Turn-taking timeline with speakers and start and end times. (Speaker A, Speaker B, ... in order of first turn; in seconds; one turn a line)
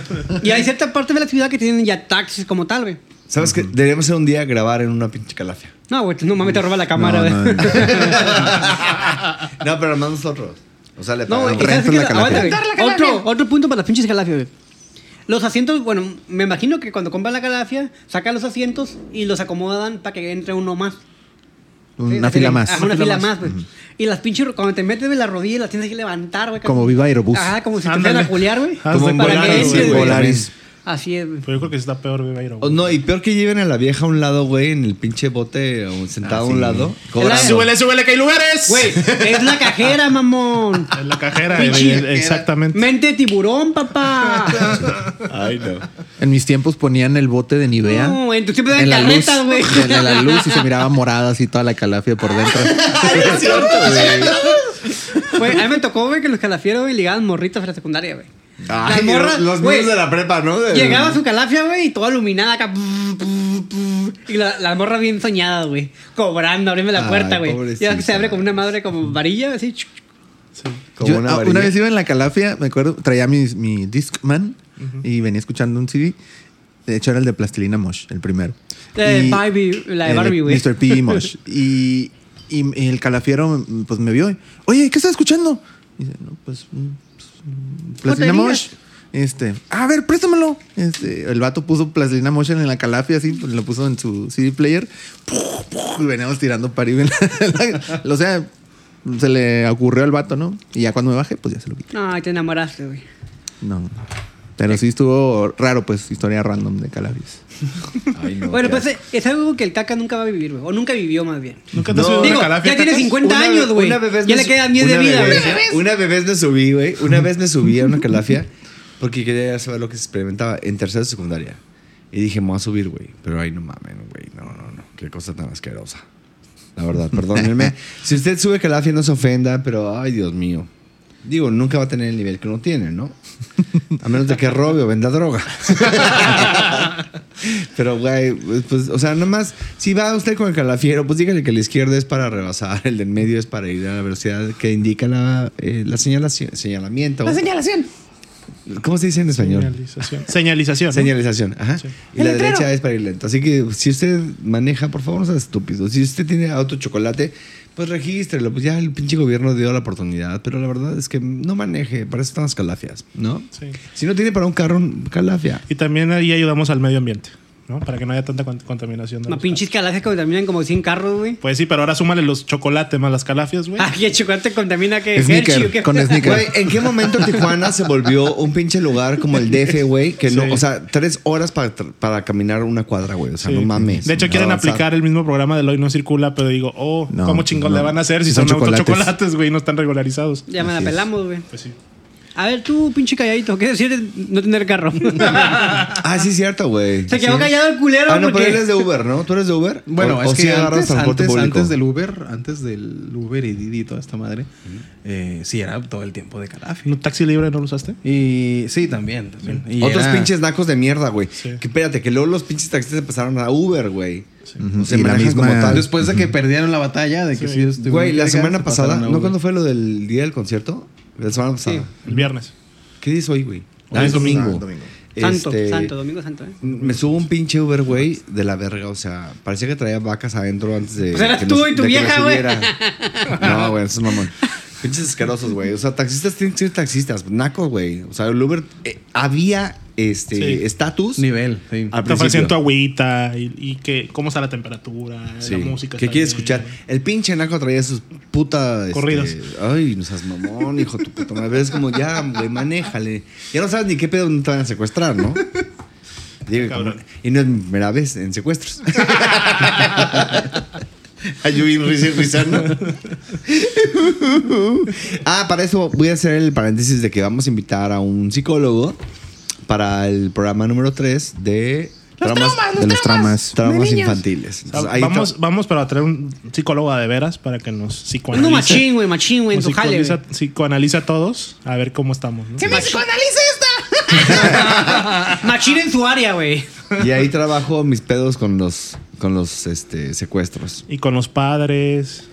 Speaker A: 0.4-3.0
Speaker B: 3.3-5.7
Speaker C: 3.4-3.7
Speaker A: 5.9-8.6
Speaker C: 7.0-8.3
Speaker B: 7.7-11.9
Speaker A: 11.3-14.5
Speaker C: 11.4-12.5
Speaker D: 12.3-13.2
Speaker A: 15.3-21.0
Speaker C: 22.0-23.6
Speaker A: 22.0-30.3
Speaker C: 26.6-27.5
Speaker E: 27.8-30.2
Speaker B: 28.9-30.5
Speaker C: 29.7-30.5
Speaker A: 30.9-31.5
Speaker E: 31.4-32.9
Speaker B: 32.6-37.7
Speaker C: 36.3-36.9
Speaker E: 37.1-39.1
Speaker A: 37.2-37.7
Speaker A: 38.7-41.0
Speaker E: 40.9-42.9
Speaker A: 41.5-44.9
Speaker B: 45.2-45.9
Speaker C: 46.2-54.0
Speaker A: 47.8-50.6
Speaker B: 52.4-54.5
Speaker A: 52.7-54.6
Speaker D: 53.7-54.6
Speaker A: 55.2-58.3
Speaker B: 58.7-61.2
Speaker A: 58.8-60.0
Speaker A: 60.7-69.9
Speaker B: 66.9-68.6
Speaker B: 71.0-71.8
Speaker C: 71.0-76.2
Speaker C: 76.9-79.5
Speaker A: 79.0-81.2
Speaker C: 80.0-98.5
Speaker A: 88.0-88.7
Speaker C: 99.0-101.9
Speaker A: 101.9-103.0
Speaker C: 103.6-103.9
Speaker C: 104.6-107.4
Speaker B: 108.1-108.9
Speaker A: 108.5-115.6
Speaker E: 111.7-113.2
Speaker B: 111.9-112.6
Speaker B: 113.1-121.6
Speaker D: 115.1-115.8
Speaker B: 122.1-126.0
Speaker B: 126.8-130.7
Speaker B: 131.2-133.2
Speaker B: 134.0-147.4
Speaker D: 147.2-147.9
Speaker B: 148.7-149.7
Speaker E: 149.4-151.1
Speaker B: 150.9-165.6
Speaker D: 152.2-152.7
Speaker E: 165.7-169.6
Speaker A: 169.3-171.4
Speaker E: 171.4-173.9
Speaker A: 173.8-176.5
Speaker C: 175.1-176.9
Speaker B: 176.2-184.9
Speaker E: 180.3-180.6
Speaker E: 183.4-190.5
Speaker C: 187.1-189.1
Speaker A: 190.5-191.4
Speaker B: 190.6-191.0
Speaker E: 191.5-191.8
Speaker A: 192.3-195.9
Speaker B: 195.9-201.7
Speaker A: 197.1-198.9
Speaker F: 199.9-204.5
Speaker F: 205.0-206.9
Speaker E: 206.8-208.0
Speaker F: 208.0-210.3
Speaker B: 209.8-215.9
Speaker C: 214.6-216.1
Speaker F: 215.7-219.3
Speaker E: 217.3-217.7
Speaker B: 217.8-222.1
Speaker E: 222.1-222.5
Speaker B: 223.0-225.9
Speaker E: 223.9-224.6
Speaker C: 223.9-224.9
Speaker A: 225.2-226.6
Speaker B: 226.6-232.7
Speaker A: 231.1-233.7
Speaker B: 233.3-241.2
Speaker E: 240.4-240.6
Speaker F: 241.2-241.9
Speaker B: 241.9-242.6
Speaker E: 242.0-246.7
Speaker B: 245.4-255.4
Speaker E: 248.9-249.3
Speaker B: 256.4-260.6
Speaker E: 256.7-257.0
Speaker B: 261.2-269.0
Speaker B: 269.6-272.7
Speaker D: 272.2-274.2
Speaker C: 272.7-273.6
Speaker B: 273.5-275.3
Speaker E: 274.7-282.7
Speaker A: 278.3-280.2
Speaker D: 282.6-285.3
Speaker A: 282.6-283.0
Speaker A: 284.1-286.7
Speaker B: 286.9-290.8
Speaker E: 290.9-292.2